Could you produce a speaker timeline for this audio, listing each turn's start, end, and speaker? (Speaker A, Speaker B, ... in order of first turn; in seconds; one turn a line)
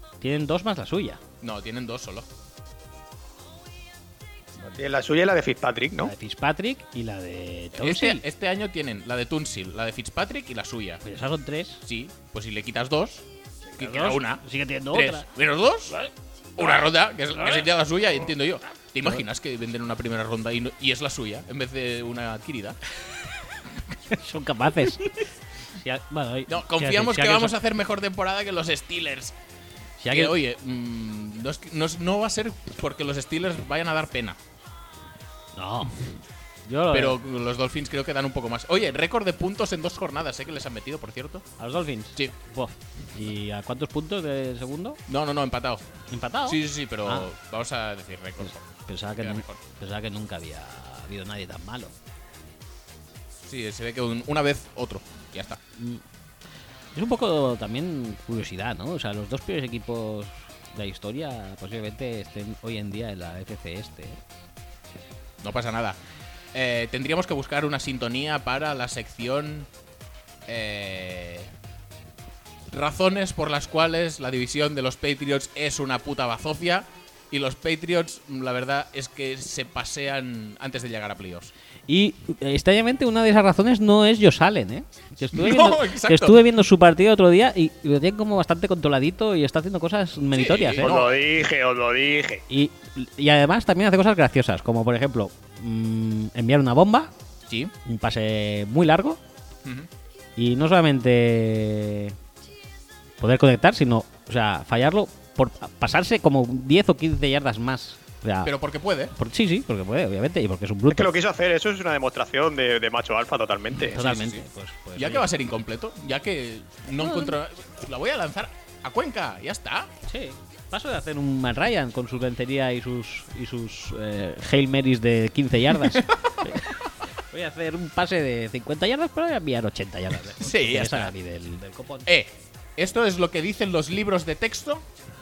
Speaker A: 0.2-1.2
Speaker B: 1.4-2.2
Speaker C: 4.8-6.1
Speaker A: 6.0-8.2
Speaker B: 7.8-11.0
Speaker A: 11.0-11.8
Speaker B: 11.8-13.2
Speaker A: 13.7-15.2
Speaker B: 13.8-15.9
Speaker B: 16.6-22.8
Speaker A: 17.4-17.7
Speaker A: 24.1-27.5
Speaker B: 26.5-29.3
Speaker A: 30.0-30.3
Speaker B: 30.1-34.4
Speaker A: 35.5-36.1
Speaker A: 36.7-37.2
Speaker B: 36.9-41.4
Speaker A: 41.6-45.0
Speaker B: 45.1-45.9
Speaker A: 46.1-47.3
Speaker B: 46.5-48.6
Speaker A: 48.9-51.9
Speaker B: 49.2-49.5
Speaker B: 53.5-55.6
Speaker A: 55.8-56.0
Speaker A: 56.9-64.2
Speaker B: 65.4-66.0
Speaker B: 66.5-69.7
Speaker B: 70.5-71.5
Speaker B: 72.7-81.5
Speaker A: 81.9-90.9
Speaker B: 85.3-86.4
Speaker B: 90.3-91.1
Speaker C: 90.8-92.4
Speaker A: 92.5-97.1
Speaker B: 97.5-97.7
Speaker A: 97.8-99.2
Speaker A: 100.4-102.2
Speaker A: 103.2-108.5
Speaker B: 108.4-109.1
Speaker A: 109.1-111.1
Speaker C: 110.9-114.0
Speaker A: 113.9-115.3
Speaker B: 113.9-114.4
Speaker B: 115.0-119.9
Speaker A: 117.0-117.4
Speaker A: 120.1-132.1
Speaker B: 125.8-126.5
Speaker B: 130.4-131.1
Speaker B: 132.1-134.8